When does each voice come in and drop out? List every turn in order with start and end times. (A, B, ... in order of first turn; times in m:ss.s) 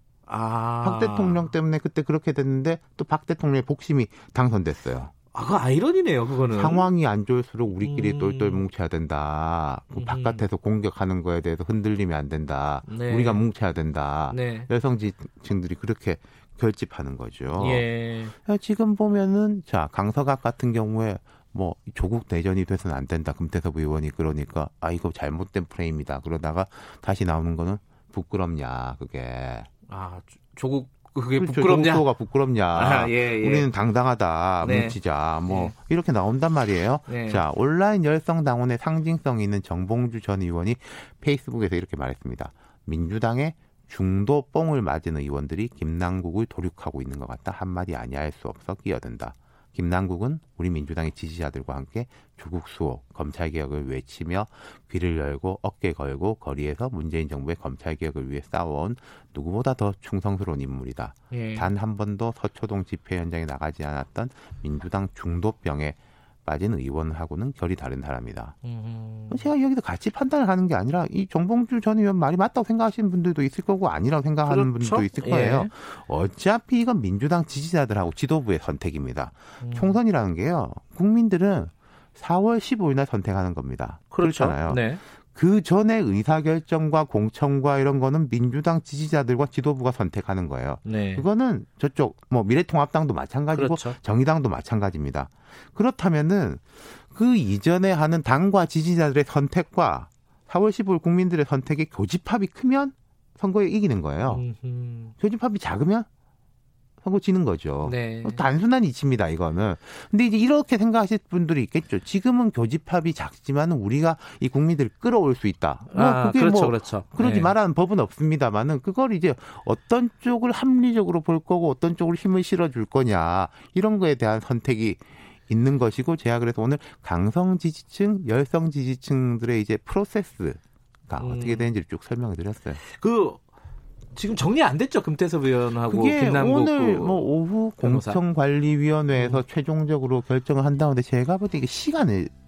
0:00.2-0:01.5 A
0:00.8-0:05.1 B
0:05.3-0:06.9 A
0:06.5-0:17.9 B
0:07.8-0:08.6 A
0:09.9-0:10.4 A
0:12.8-0:13.4 A
0:14.3-0:14.7 A
0:17.6-0:18.3 A
0:18.4-0:29.7 B
0:29.9-0:32.1 A
0:31.4-1:08.6 B
0:32.7-0:33.7 A
0:34.6-0:35.7 A
0:37.1-0:37.4 A
1:01.3-1:01.7 A
1:08.6-1:09.5 A
1:09.3-1:44.4 B
1:14.5-1:15.7 A
1:19.6-1:20.0 A
1:24.1-1:25.0 A
1:30.8-1:31.3 A
1:33.5-1:34.0 A
1:44.2-1:45.1 A
1:45.2-1:46.1 B
1:47.0-2:12.8 B
1:47.8-1:48.4 A
1:55.9-1:57.5 A
2:11.2-2:11.7 A
2:12.8-2:13.4 A
2:14.1-2:18.2 A
2:15.8-2:22.3 B
2:19.1-2:19.4 A